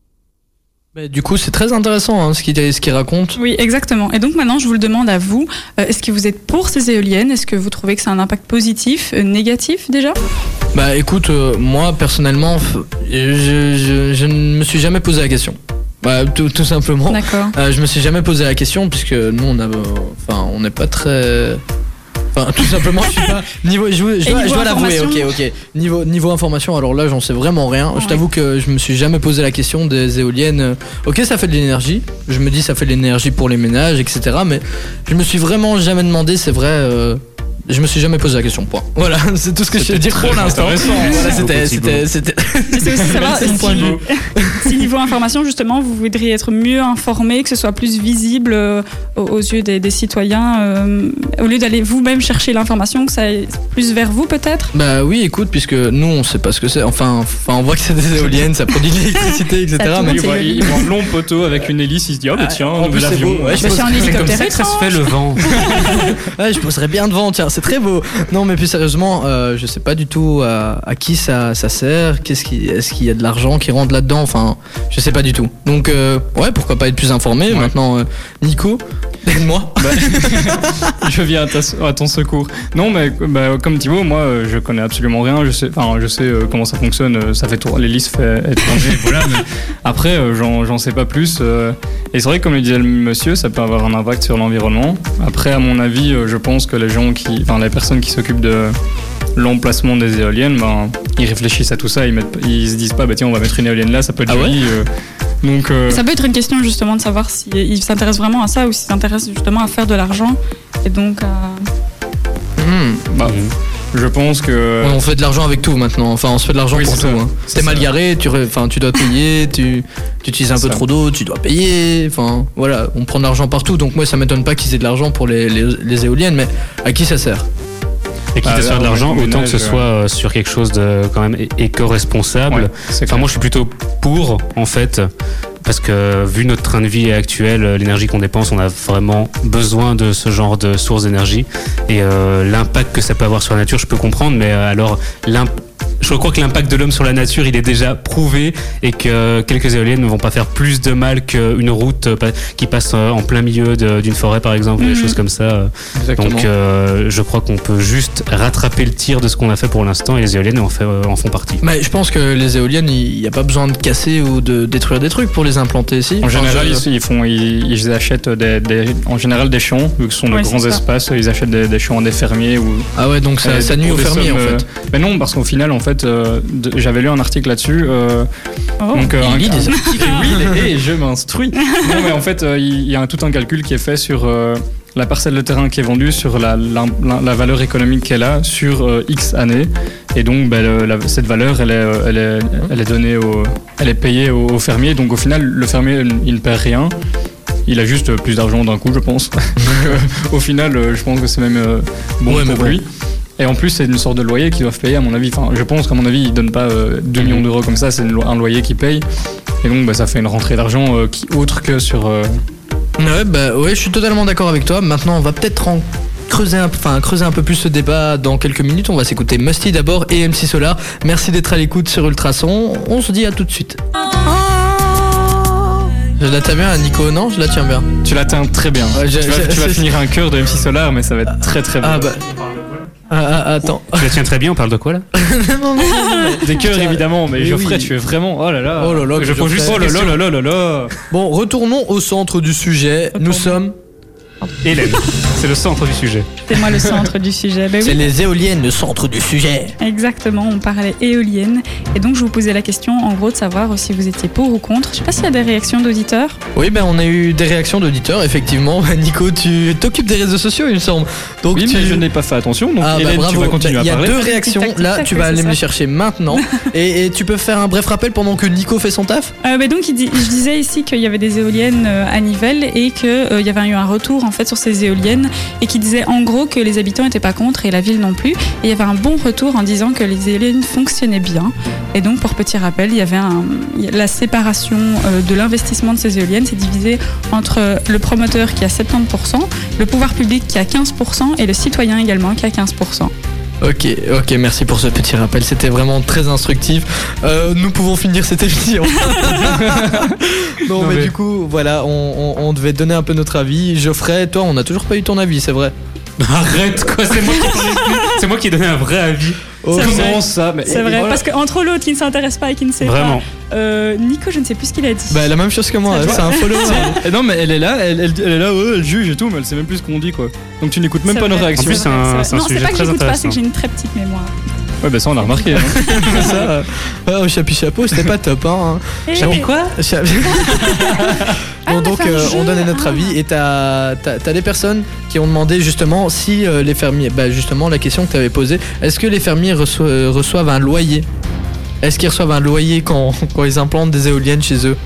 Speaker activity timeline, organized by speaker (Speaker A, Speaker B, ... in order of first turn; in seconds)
Speaker A: 0.9-3.4, 10.7-21.6, 22.3-44.7, 54.7-60.8, 62.4-64.4, 65.7-81.0, 104.3-104.6, 112.6-113.0, 114.8-127.5, 155.9-156.5, 161.6-166.8, 172.9-174.7, 179.2-180.6, 199.6-199.9, 202.3-202.8, 213.0-227.9, 228.9-229.9, 231.8-232.2, 233.1-234.2, 235.1-237.9, 238.8-240.1, 241.1-243.7, 247.8-249.8, 256.5-262.0, 262.8-269.3, 293.6-305.7, 309.6-310.8, 315.1-317.0, 325.7-341.1, 341.8-344.8
Speaker B: 3.4-10.2, 17.1-17.5, 24.2-25.3, 27.9-28.2, 42.7-54.7, 59.8-60.9, 63.6-66.2, 105.9-111.7, 154.8-155.2, 170.3-170.8, 178.8-180.2, 181.7-182.1, 235.9-236.4, 243.1-243.6, 244.4-244.9, 246.5-248.1, 249.8-256.4, 264.1-265.6, 269.4-293.1, 307.2-308.2, 309.7-315.3, 315.9-316.9, 321.1-324.3, 325.2-326.4, 329.1-329.5, 330.3-333.1
Speaker C: 39.7-41.4, 42.9-44.0, 60.0-63.8, 79.8-98.7, 99.3-104.9, 105.4-106.0, 113.1-113.4, 113.9-115.0, 116.7-117.9, 128.4-129.8, 132.5-133.3, 166.2-172.9, 173.4-178.3, 178.9-196.9, 197.7-202.8, 203.4-209.0, 209.6-212.3, 228.0-232.2, 236.4-240.9, 261.5-264.2, 299.4-300.1, 309.7-311.2, 316.0-321.9, 324.8-326.5
Speaker D: 41.1-42.1, 63.8-65.6, 88.8-89.4, 113.2-113.5, 128.3-135.1, 135.6-161.6, 233.8-235.1, 239.1-240.2, 244.6-246.4, 300.8-301.1, 306.2-309.5, 312.8-313.2, 321.6-323.4, 329.1-329.7